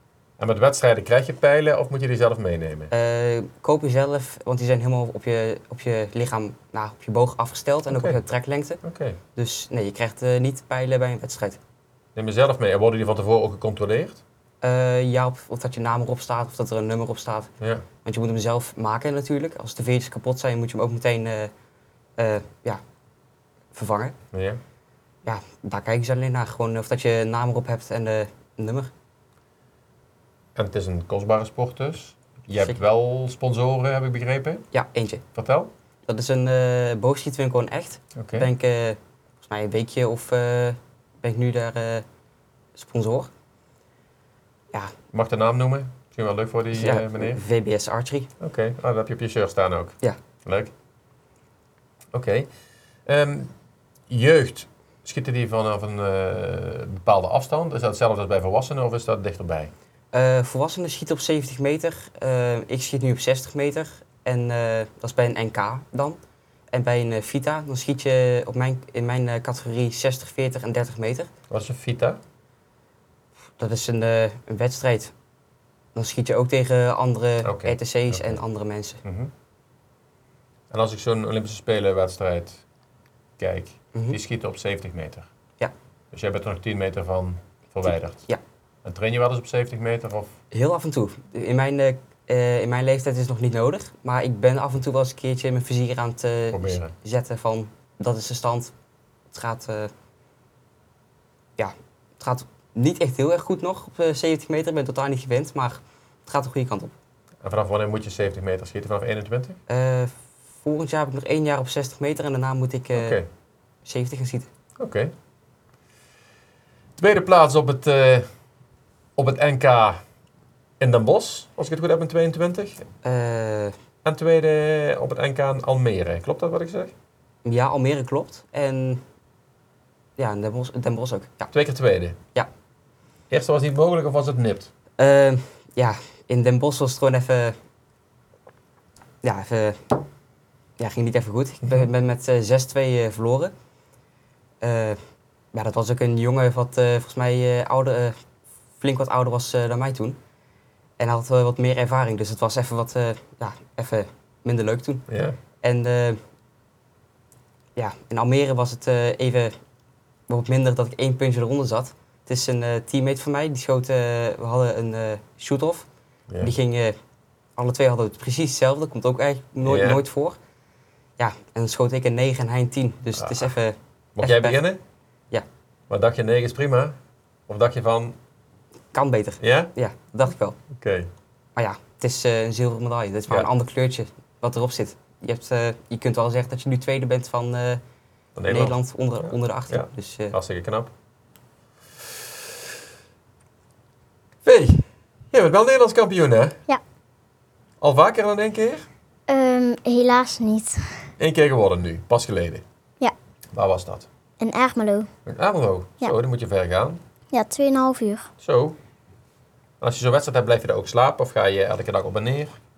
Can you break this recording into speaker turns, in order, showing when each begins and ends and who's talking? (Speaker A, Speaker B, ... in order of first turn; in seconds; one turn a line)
Speaker A: 0.4-2.9
Speaker B: 2.9-8.8
Speaker A: 7.9-8.2
Speaker A: 8.8-9.2
Speaker B: 9.4-11.6
Speaker A: 12.2-14.2
Speaker B: 14.6-17.5
Speaker A: 17.6-17.9
Speaker B: 18.1-21.5
Speaker B: 22.2-22.8
Speaker B: 23.7-24.1
Speaker A: 24.3-24.6
Speaker B: 25.2-28.9
Speaker A: 30.6-34.6
Speaker B: 34.7-35.2
Speaker A: 35.4-35.7
Speaker B: 36.1-42.0
Speaker A: 38.2-38.5
Speaker B: 42.8-43.3
Speaker A: 45.1-47.4
Speaker B: 46.7-48.3
Speaker A: 48.4-50.7
Speaker A: 52.1-52.5
Speaker A: 53.1-53.5
Speaker A: 54.1-59.7
Speaker B: 60.1-66.2
Speaker B: 66.7-71.3
Speaker A: 71.5-72.2
Speaker B: 73.6-75.1
Speaker B: 76.0-79.0
Speaker A: 77.4-78.4
Speaker A: 79.0-79.3
Speaker A: 80.7-82.6
Speaker A: 83.4-85.3
Speaker A: 86.1-88.2
Speaker A: 88.8-90.4
Speaker B: 90.5-98.7
Speaker A: 96.5-96.9
Speaker B: 99.3-99.9
Speaker B: 101.6-106.9
Speaker A: 107.4-109.6
Speaker B: 109.7-113.2
Speaker A: 112.9-113.3
Speaker B: 113.8-114.5
Speaker A: 114.8-115.1
Speaker A: 117.0-118.3
Speaker A: 119.2-120.0
Speaker A: 120.8-122.9
Speaker B: 123.0-123.8
Speaker A: 124.0-126.9
Speaker B: 127.5-129.0
Speaker B: 130.2-131.5
Speaker A: 131.5-132.2
Speaker A: 133.3-134.7
Speaker B: 135.0-137.6
Speaker B: 139.2-140.0
Speaker B: 140.8-143.5
Speaker B: 144.6-145.0
Speaker B: 145.5-148.2
Speaker B: 148.8-150.2
Speaker B: 151.0-155.1
Speaker A: 155.1-155.4
Speaker B: 155.6-156.2
Speaker B: 157.8-159.6
Speaker B: 160.3-165.9
Speaker B: 166.4-167.0
Speaker B: 167.6-170.4
Speaker A: 169.6-170.0
Speaker B: 171.2-174.6
Speaker A: 173.2-173.5
Speaker A: 174.2-174.8
Speaker A: 175.9-177.0
Speaker A: 177.5-178.2
Speaker B: 178.9-180.6
Speaker A: 179.4-179.7
Speaker A: 180.7-181.1
Speaker B: 181.6-187.8
Speaker A: 188.4-190.9
Speaker B: 188.5-190.4
Speaker A: 194.4-196.6
Speaker A: 197.8-198.9
Speaker C: 199.3-201.1
Speaker A: 201.2-202.6
Speaker A: 203.5-204.1
Speaker C: 204.4-205.1
Speaker A: 205.3-207.0
Speaker C: 207.3-208.3
Speaker A: 208.4-208.8
Speaker A: 209.8-212.6